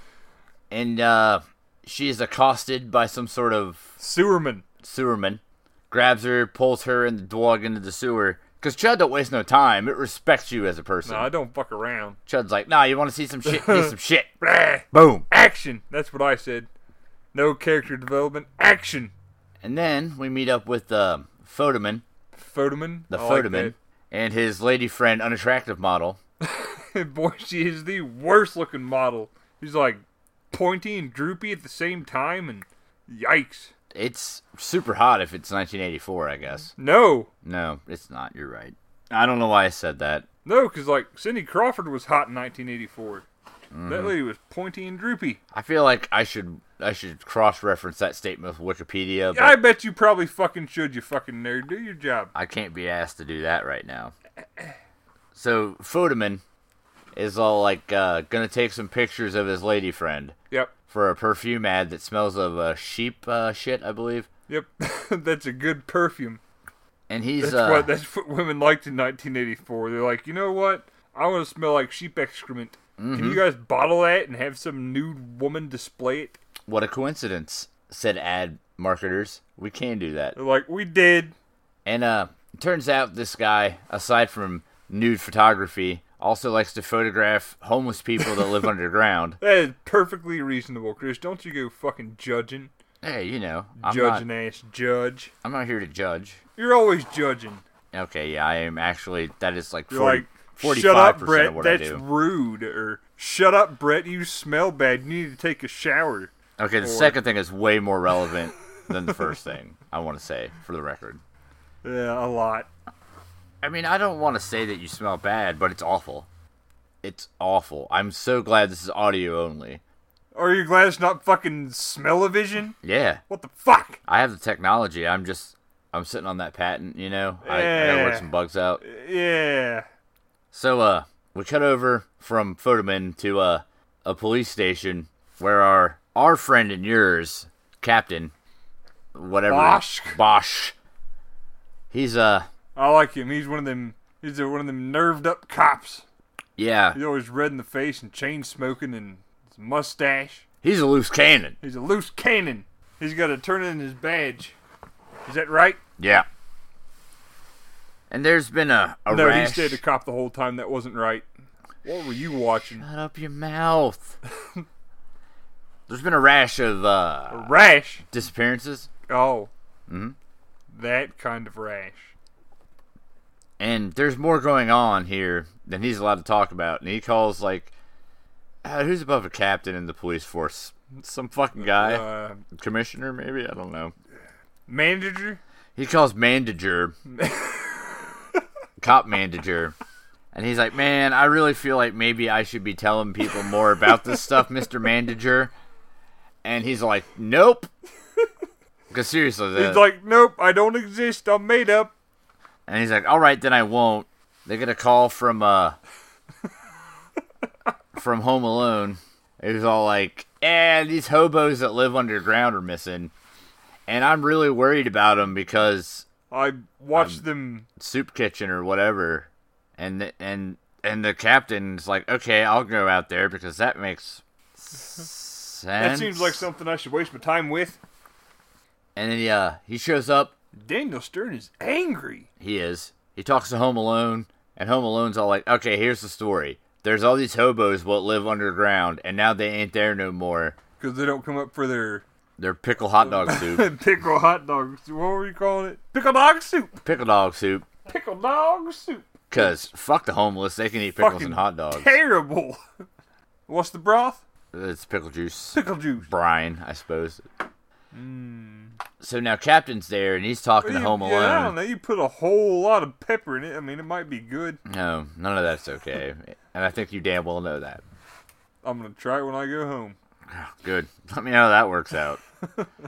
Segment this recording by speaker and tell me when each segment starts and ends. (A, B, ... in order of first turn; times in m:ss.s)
0:00.7-0:03.9 A
0:04.0-0:04.6 B
0:04.8-0:11.3 A
0:11.0-0:12.2 B
0:12.3-0:14.3 A
0:13.4-0:16.7 B
0:14.9-0:15.3 A
0:17.3-0:19.1 B
0:19.6-0:22.0 A
0:22.3-0:23.7 B
0:23.1-0:26.2 A
0:26.4-0:33.7 B
0:33.9-0:36.7 A
0:36.8-0:37.3 B
0:37.4-0:40.2 A
0:40.4-0:43.2 B
0:43.7-0:44.1 A
0:43.9-0:45.4 B
0:45.5-0:49.6 A
0:49.3-0:52.3 B
0:52.3-0:54.1 A
0:55.3-0:56.4 A
0:57.1-1:00.4 A
1:00.9-1:04.3 A
1:04.5-1:06.4 B
1:07.1-1:07.9 A
1:07.4-1:16.4 B
1:13.0-1:13.4 A
1:16.7-1:20.4 A
1:20.3-1:21.3 B
1:21.8-1:29.4 A
1:29.4-1:32.7 B
1:33.0-1:34.2 A
1:33.8-1:35.3 B
1:35.4-1:36.4 A
1:36.6-1:37.6 B
1:37.9-1:42.0 A
1:39.9-1:47.2 B
1:46.6-1:51.2 A
1:51.8-1:52.7 B
1:53.6-1:56.3 A
1:57.0-1:59.8 A
2:00.3-2:02.8 B
2:02.8-2:03.2 A
2:03.3-2:04.0 B
2:04.0-2:08.8 A
2:07.4-2:08.3 B
2:08.8-2:09.8 B
2:10.5-2:18.3 A
2:19.1-2:20.7 A
2:19.5-2:20.2 B
2:21.9-2:22.5 A
2:22.7-2:26.0 B
2:26.6-2:27.0 A
2:26.9-2:30.4 B
2:30.6-2:31.6 A
2:31.6-2:34.6 B
2:35.2-2:35.8 B
2:36.0-2:36.3 A
2:38.1-2:39.8 A
2:39.1-2:41.3 B
2:41.8-2:42.8 B
2:42.7-2:44.2 A
2:45.9-2:47.5 A
2:47.3-2:48.0 B
2:48.1-2:48.9 A
2:49.1-2:49.5 B
2:49.9-2:50.1 A
2:50.7-2:52.1 B
2:53.6-2:57.7 A
2:58.6-3:03.9 A
3:01.6-3:02.4 B
3:04.7-3:05.4 B
3:05.8-3:07.0 A
3:07.1-3:08.4 B
3:08.8-3:09.8 A
3:10.3-3:15.5 A
3:16.4-3:17.7 A
3:18.9-3:19.9 A
3:19.5-3:21.9 B
3:22.7-3:25.8 A
3:27.9-3:33.1 A
3:33.9-3:36.0 A
3:36.3-3:37.7 B
3:36.9-3:37.2 A
3:37.8-3:46.4 A
3:45.8-3:47.8 B
3:49.0-3:50.3 A
3:50.5-3:52.3 B
3:52.4-4:00.6 A
4:00.8-4:02.0 B
4:02.4-4:03.7 A
4:03.0-4:06.8 B
4:06.8-4:07.6 A
4:07.8-4:09.7 B
4:09.3-4:11.9 A
4:11.0-4:12.6 B
4:13.5-4:14.2 B
4:14.5-4:17.2 A
4:15.5-4:16.1 B
4:17.9-4:18.8 B
4:19.0-4:21.6 A
4:20.6-4:24.6 B
4:24.6-4:27.8 A
4:28.6-4:30.0 B
4:30.3-4:32.2 A